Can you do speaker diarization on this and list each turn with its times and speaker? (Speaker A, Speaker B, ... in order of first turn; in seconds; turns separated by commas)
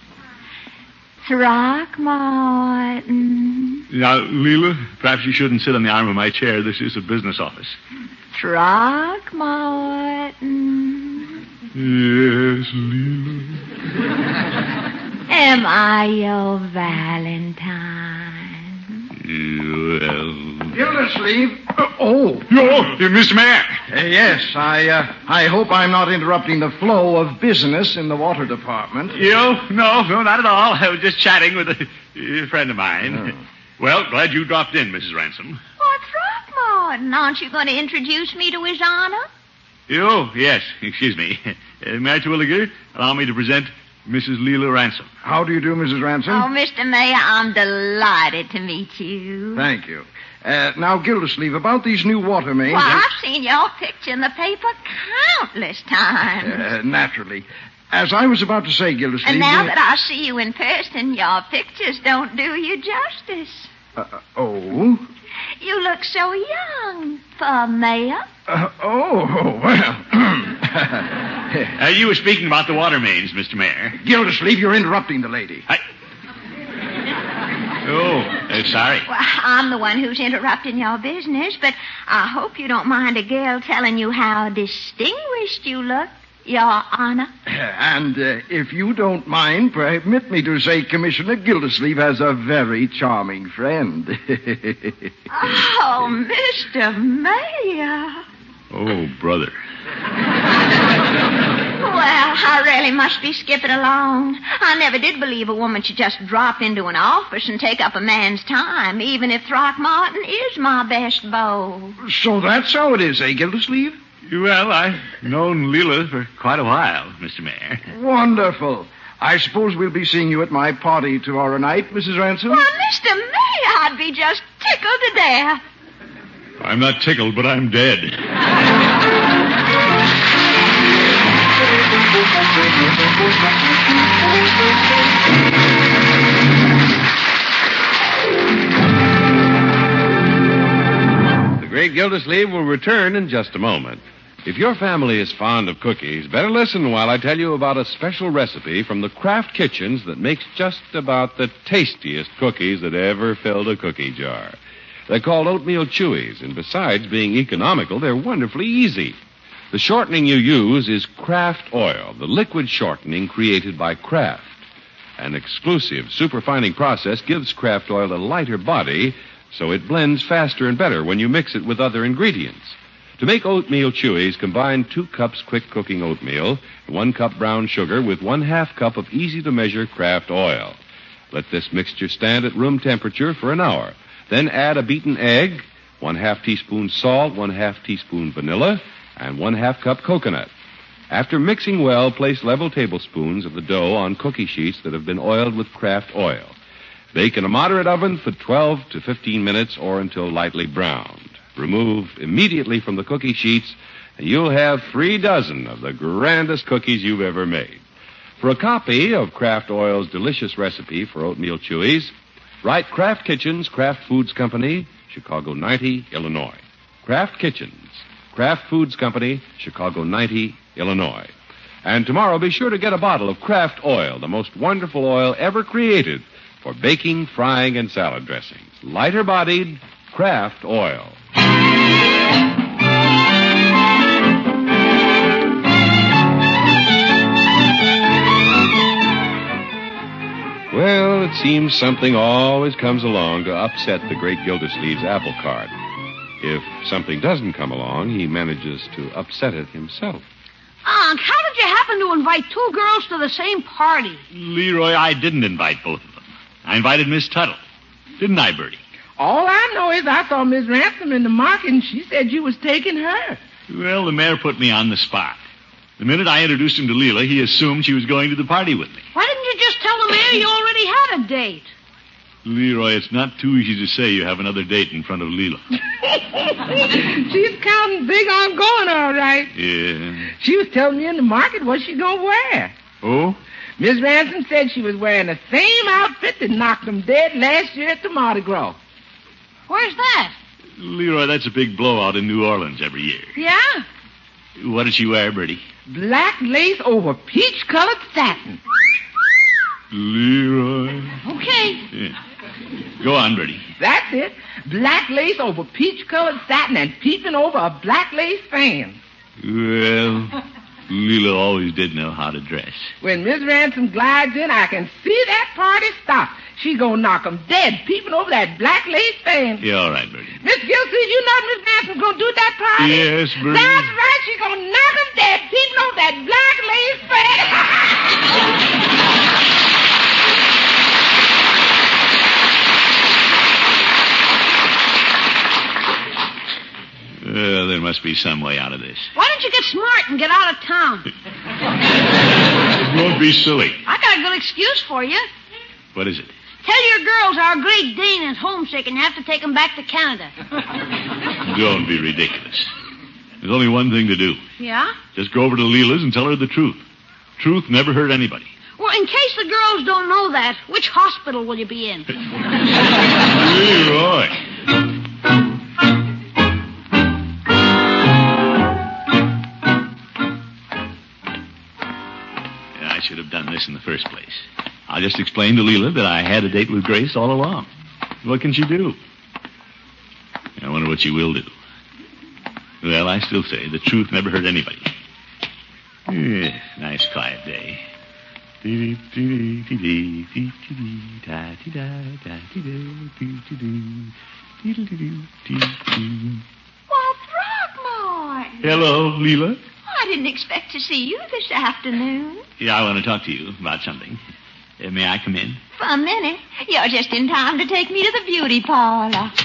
Speaker A: 1.2-3.8, Speaker B: 3.9-7.8, Speaker A: 8.3-11.4, Speaker B: 11.7-13.6, Speaker A: 15.3-19.1, Speaker B: 19.1-20.7, Speaker C: 20.7-22.6, Speaker B: 22.5-23.8, Speaker C: 23.9-29.2, Speaker B: 29.1-35.6, Speaker A: 35.8-39.3, Speaker B: 39.9-45.1, Speaker C: 45.2-46.5, Speaker A: 46.3-49.6, Speaker C: 49.5-53.1, Speaker A: 52.7-56.6, Speaker C: 56.4-59.7, Speaker A: 59.2-63.7, Speaker C: 64.0-65.0, Speaker A: 65.6-68.2, Speaker C: 68.5-71.7, Speaker B: 71.8-74.0, Speaker C: 74.0-75.7, Speaker B: 77.8-79.1, Speaker A: 79.1-87.3, Speaker C: 87.5-95.1, Speaker A: 95.3-98.2, Speaker B: 98.7-99.5, Speaker A: 101.7-112.0, Speaker C: 112.0-114.0, Speaker B: 114.3-117.9, Speaker C: 117.9-122.6, Speaker A: 122.5-125.6, Speaker B: 126.6-128.2, Speaker D: 141.6-154.6, Speaker D: 155.1-159.2, Speaker D: 159.7-164.6, Speaker D: 165.2-180.8, Speaker D: 181.3-190.5, Speaker D: 191.1-196.5, Speaker D: 197.1-207.8, Speaker D: 208.4-221.3, Speaker D: 221.8-231.2, Speaker D: 240.7-245.7, Speaker D: 246.4-250.2, Speaker E: 250.8-254.2, Speaker B: 254.3-257.6, Speaker B: 258.2-258.8, Speaker F: 259.2-263.4, Speaker B: 263.7-265.4, Speaker B: 266.0-269.0, Speaker E: 269.1-271.7, Speaker B: 272.4-275.8, Speaker F: 276.6-279.5, Speaker B: 279.5-280.3, Speaker F: 280.3-282.7, Speaker B: 283.0-283.4, Speaker F: 283.8-288.8, Speaker E: 289.7-290.4, Speaker B: 290.8-293.3, Speaker E: 293.4-293.9, Speaker B: 294.6-295.6, Speaker F: 295.9-298.6, Speaker B: 299.9-301.2, Speaker E: 301.2-301.9, Speaker B: 303.0-303.6, Speaker F: 303.8-309.0, Speaker B: 309.4-312.9, Speaker F: 313.0-319.6, Speaker B: 319.6-320.4, Speaker F: 320.4-328.1, Speaker B: 322.8-323.9, Speaker B: 337.2-339.1, Speaker E: 339.1-341.1, Speaker B: 342.8-343.8, Speaker E: 343.9-345.3, Speaker B: 345.9-346.3, Speaker E: 346.6-350.3, Speaker B: 351.4-352.7, Speaker B: 353.4-354.4, Speaker E: 354.6-354.9, Speaker B: 355.1-356.8, Speaker B: 357.4-358.5, Speaker E: 358.8-362.1, Speaker B: 363.3-364.4, Speaker B: 372.8-377.7, Speaker B: 378.2-379.0, Speaker B: 380.6-381.5, Speaker B: 382.8-384.9, Speaker B: 386.1-387.8, Speaker B: 388.6-396.4, Speaker A: 396.9-398.7, Speaker B: 398.6-399.6, Speaker A: 399.9-402.4, Speaker B: 402.6-404.2, Speaker B: 404.8-405.6, Speaker A: 405.8-409.3